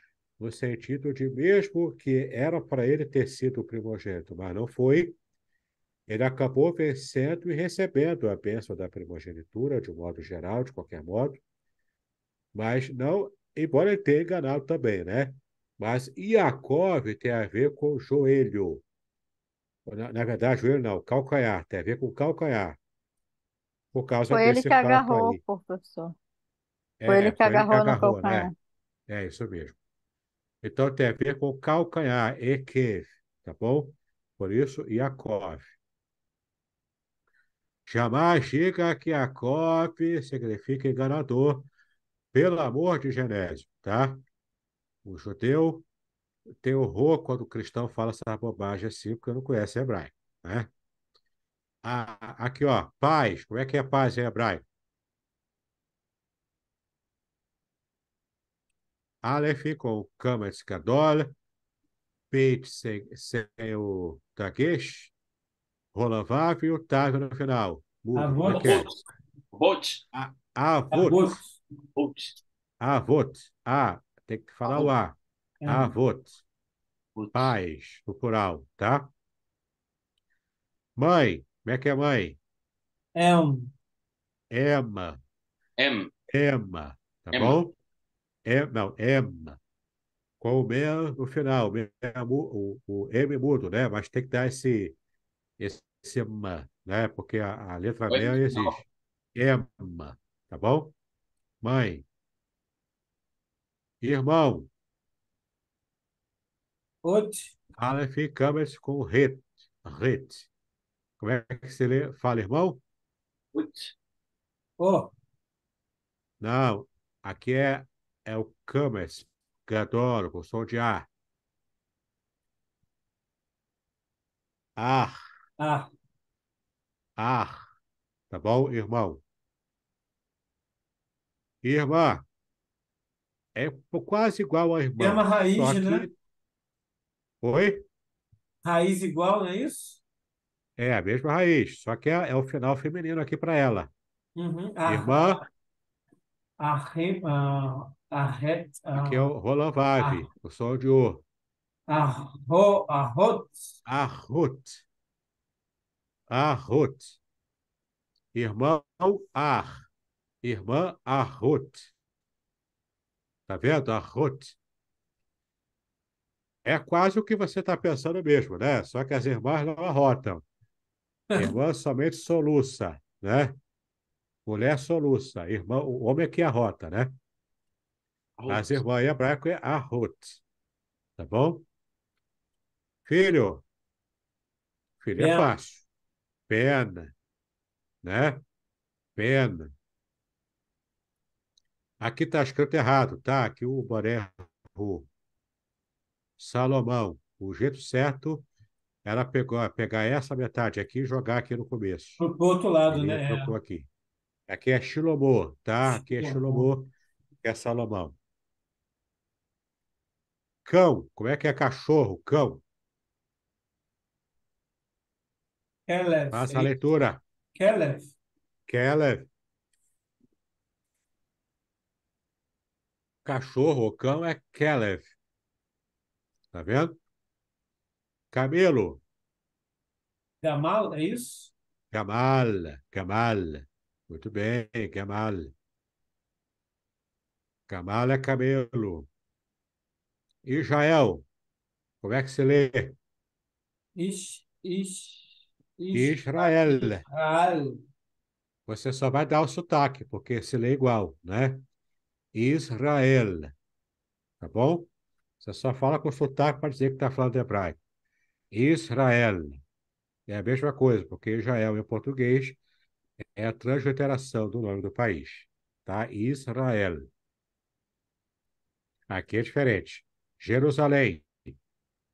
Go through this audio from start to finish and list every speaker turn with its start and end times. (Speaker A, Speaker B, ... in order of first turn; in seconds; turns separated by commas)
Speaker A: 0.4-5.2, Speaker A: 6.1-11.4, Speaker A: 12.5-18.8, Speaker A: 19.9-22.8, Speaker A: 23.9-25.4, Speaker B: 24.3-26.2, Speaker A: 27.0-28.5, Speaker B: 27.1-28.5, Speaker A: 29.1-29.8, Speaker A: 30.6-35.7, Speaker A: 37.9-41.7, Speaker A: 42.3-44.2, Speaker A: 45.0-45.9, Speaker A: 46.6-50.7, Speaker A: 51.8-54.6, Speaker A: 59.2-61.3, Speaker A: 62.3-65.1, Speaker A: 65.9-68.9, Speaker C: 68.2-68.7, Speaker D: 68.5-69.0, Speaker D: 69.5-70.0, Speaker A: 70.1-71.4, Speaker C: 70.9-71.6, Speaker D: 72.0-72.4, Speaker A: 72.8-76.4, Speaker D: 74.6-74.9, Speaker C: 75.6-75.9, Speaker D: 77.2-77.5, Speaker A: 77.3-79.1, Speaker A: 81.0-82.4, Speaker C: 83.1-83.7, Speaker A: 84.5-85.2, Speaker D: 85.8-86.1, Speaker A: 86.3-87.8, Speaker D: 87.3-87.6, Speaker A: 88.5-89.6, Speaker A: 90.4-95.0, Speaker A: 95.6-98.8, Speaker D: 98.1-98.8, Speaker A: 99.3-100.9, Speaker A: 101.6-102.1, Speaker A: 104.0-104.7, Speaker C: 107.0-107.5, Speaker A: 107.8-110.5, Speaker A: 111.2-112.8, Speaker D: 113.5-113.9, Speaker C: 114.8-115.1, Speaker A: 116.4-121.1, Speaker A: 124.8-125.2, Speaker C: 125.6-125.9, Speaker A: 127.2-127.7, Speaker A: 128.3-129.2, Speaker A: 131.6-132.2, Speaker A: 133.6-136.1, Speaker C: 135.0-136.1, Speaker A: 137.4-137.8, Speaker C: 138.6-140.0, Speaker A: 140.8-143.9, Speaker C: 144.4-145.4, Speaker A: 144.9-145.4, Speaker C: 146.6-149.3, Speaker A: 148.9-151.2, Speaker C: 150.0-150.3, Speaker C: 151.9-153.6, Speaker A: 153.9-154.8, Speaker A: 156.3-157.2, Speaker A: 158.3-159.9, Speaker A: 160.4-161.9, Speaker A: 163.5-164.6, Speaker A: 166.6-170.4, Speaker A: 171.3-173.6, Speaker A: 174.5-177.1, Speaker D: 178.4-178.8, Speaker A: 178.5-180.4, Speaker A: 181.2-181.6, Speaker A: 183.1-183.6, Speaker A: 185.0-185.8, Speaker C: 185.2-185.5, Speaker A: 186.5-187.1, Speaker A: 188.0-188.4, Speaker A: 189.2-189.7, Speaker A: 192.0-195.1, Speaker A: 196.4-198.5, Speaker A: 199.1-202.2, Speaker C: 202.2-203.5, Speaker A: 202.9-203.9, Speaker A: 204.5-206.9, Speaker C: 205.8-206.7, Speaker A: 207.4-208.2, Speaker A: 210.6-212.6, Speaker C: 215.9-216.7, Speaker A: 216.3-217.2, Speaker C: 217.6-218.1, Speaker A: 218.7-219.3, Speaker A: 223.2-225.1, Speaker A: 226.5-227.0, Speaker A: 228.3-229.0, Speaker C: 230.4-231.5, Speaker A: 231.9-235.5, Speaker A: 237.7-239.1, Speaker A: 240.4-241.2, Speaker A: 242.0-243.0, Speaker C: 244.0-247.8, Speaker A: 245.9-247.1, Speaker A: 248.7-251.6, Speaker A: 252.3-253.5, Speaker A: 254.4-254.9, Speaker A: 255.4-257.8, Speaker A: 258.5-259.6, Speaker A: 260.3-262.6, Speaker A: 263.4-267.1, Speaker A: 269.1-271.6